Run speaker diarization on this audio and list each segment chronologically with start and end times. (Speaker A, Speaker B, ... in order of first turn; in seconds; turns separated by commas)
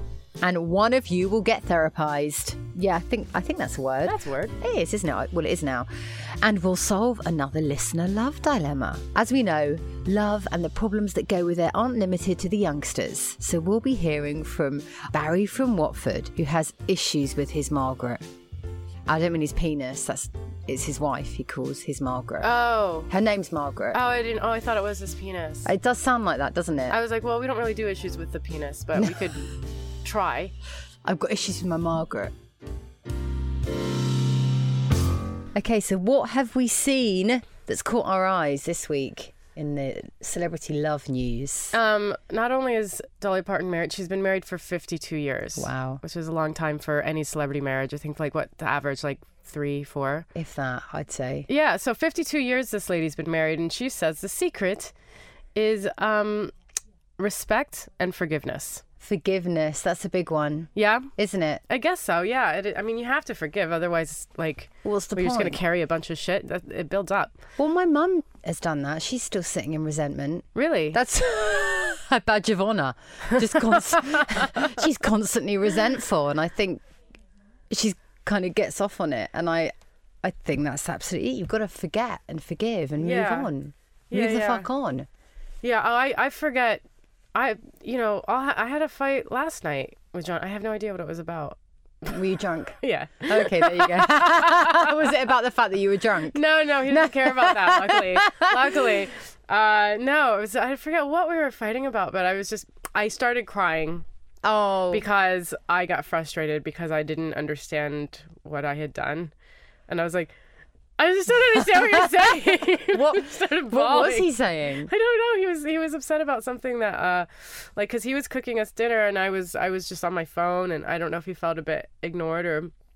Speaker A: 0.4-18.2, Speaker B: 4.0-4.5, Speaker A: 19.1-24.0, Speaker B: 22.4-23.1, Speaker B: 23.9-25.7, Speaker A: 25.6-27.0, Speaker B: 26.9-30.5, Speaker A: 31.0-32.3, Speaker A: 35.5-41.7, Speaker B: 41.7-50.3, Speaker A: 45.6-46.0, Speaker A: 50.3-51.5, Speaker B: 51.5-54.9, Speaker B: 55.5-56.5, Speaker B: 57.2-58.8, Speaker A: 59.0-61.6, Speaker B: 60.7-61.1, Speaker B: 61.7-67.3, Speaker A: 64.8-65.6, Speaker A: 67.6-76.8, Speaker B: 70.5-71.0, Speaker A: 77.7-85.1, Speaker B: 83.0-83.5, Speaker B: 84.1-84.7, Speaker B: 85.6-86.8, Speaker B: 87.3-92.2, Speaker A: 92.1-99.0, Speaker B: 92.8-94.9, Speaker B: 96.3-104.0, Speaker A: 104.4-105.0, Speaker B: 104.9-109.3, Speaker B: 109.9-110.3, Speaker B: 111.0-114.3, Speaker A: 111.8-112.1, Speaker A: 112.9-114.9, Speaker B: 114.9-122.7